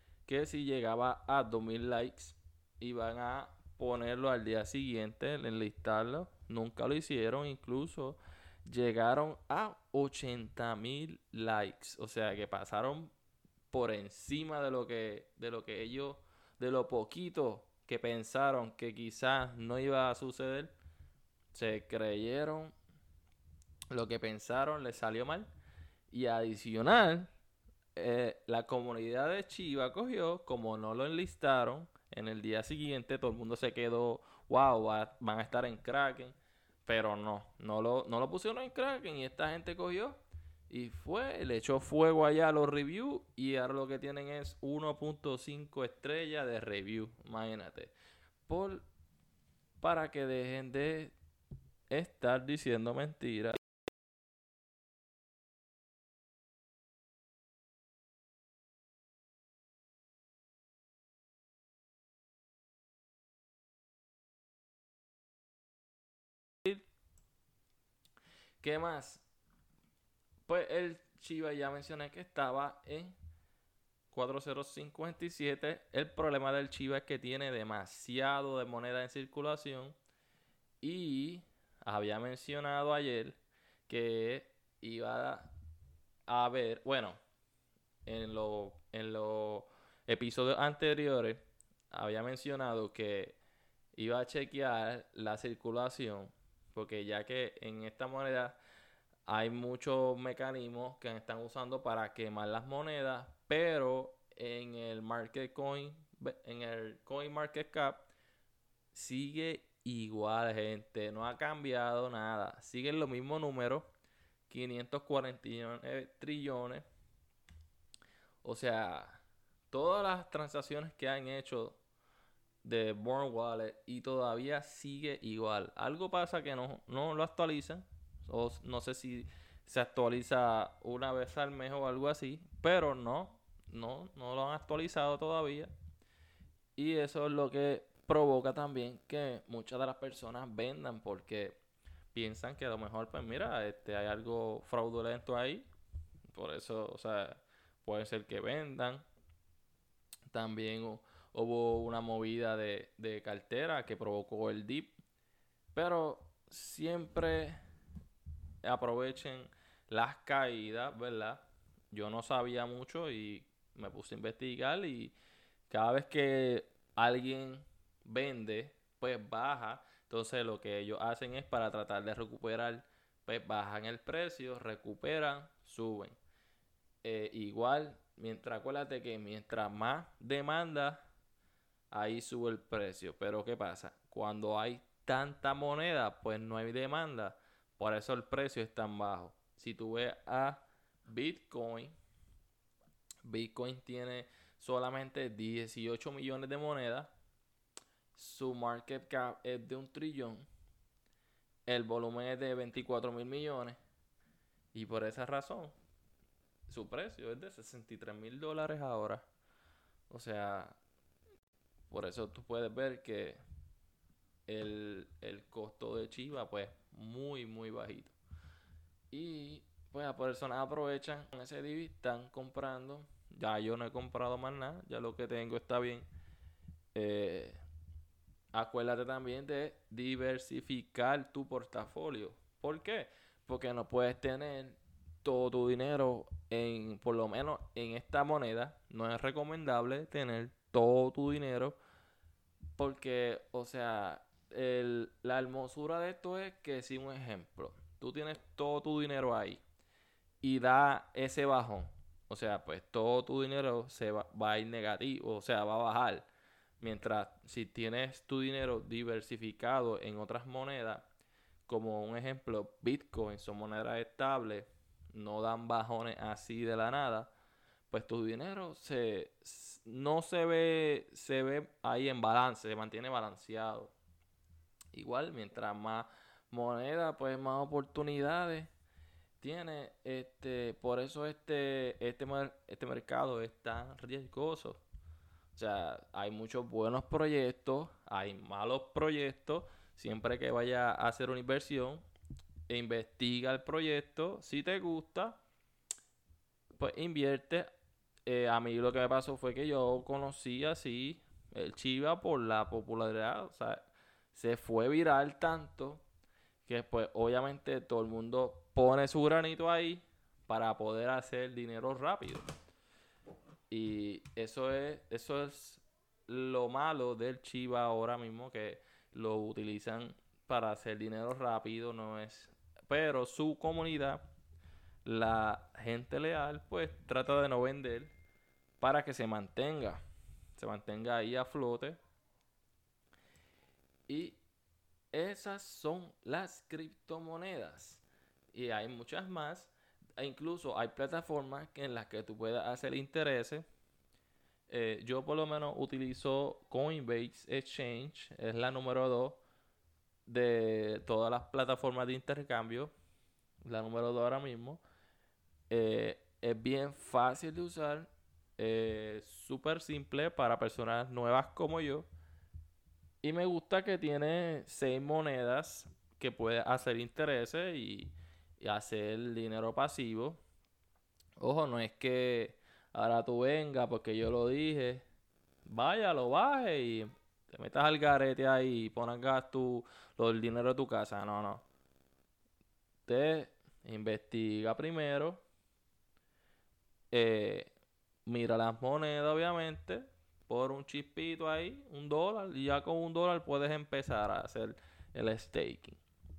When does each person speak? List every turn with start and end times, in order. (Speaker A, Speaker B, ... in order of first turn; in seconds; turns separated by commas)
Speaker A: 0.2-13.1, Speaker A: 13.7-20.7, Speaker A: 21.5-22.7, Speaker A: 23.9-25.5, Speaker A: 26.1-27.3, Speaker A: 27.9-40.2, Speaker A: 40.7-47.9, Speaker A: 48.5-48.8, Speaker A: 49.8-51.1, Speaker A: 51.9-53.6, Speaker A: 68.6-69.3, Speaker A: 70.5-73.1, Speaker A: 74.1-80.0, Speaker A: 80.8-85.5, Speaker A: 86.3-87.2, Speaker A: 88.0-93.4, Speaker A: 93.9-98.6, Speaker A: 99.3-108.1, Speaker A: 108.9-113.9, Speaker A: 114.5-116.8, Speaker A: 118.4-121.8, Speaker A: 122.6-135.7, Speaker A: 136.8-141.6, Speaker A: 142.1-145.7, Speaker A: 146.3-149.0, Speaker A: 150.3-155.0, Speaker A: 155.7-157.6, Speaker A: 158.6-165.1, Speaker A: 165.7-176.2, Speaker A: 177.0-181.0, Speaker A: 181.9-191.9, Speaker A: 193.2-197.1, Speaker A: 198.1-200.4, Speaker A: 201.7-203.8, Speaker A: 204.7-205.7, Speaker A: 206.7-209.2, Speaker A: 210.1-210.8, Speaker A: 211.9-213.4, Speaker A: 214.5-218.2, Speaker A: 219.1-226.1, Speaker A: 226.9-227.6, Speaker A: 228.5-241.8, Speaker A: 242.8-249.6, Speaker A: 250.4-256.3, Speaker A: 256.8-261.1, Speaker A: 261.7-267.3, Speaker A: 267.9-273.9, Speaker A: 274.9-278.7, Speaker A: 279.4-284.8, Speaker A: 285.5-292.0, Speaker A: 292.7-295.4, Speaker A: 296.8-297.7, Speaker A: 298.2-306.0, Speaker A: 306.6-312.5, Speaker A: 313.7-324.3, Speaker A: 325.0-328.1, Speaker A: 328.8-330.0, Speaker A: 330.6-332.0, Speaker A: 334.1-334.4, Speaker A: 335.1-343.6, Speaker A: 344.7-349.4, Speaker A: 350.3-352.9, Speaker A: 353.6-354.8, Speaker A: 355.7-362.1, Speaker A: 363.2-370.4, Speaker A: 371.4-375.0, Speaker A: 375.7-381.6, Speaker A: 383.1-385.4, Speaker A: 387.1-387.7, Speaker A: 388.3-396.0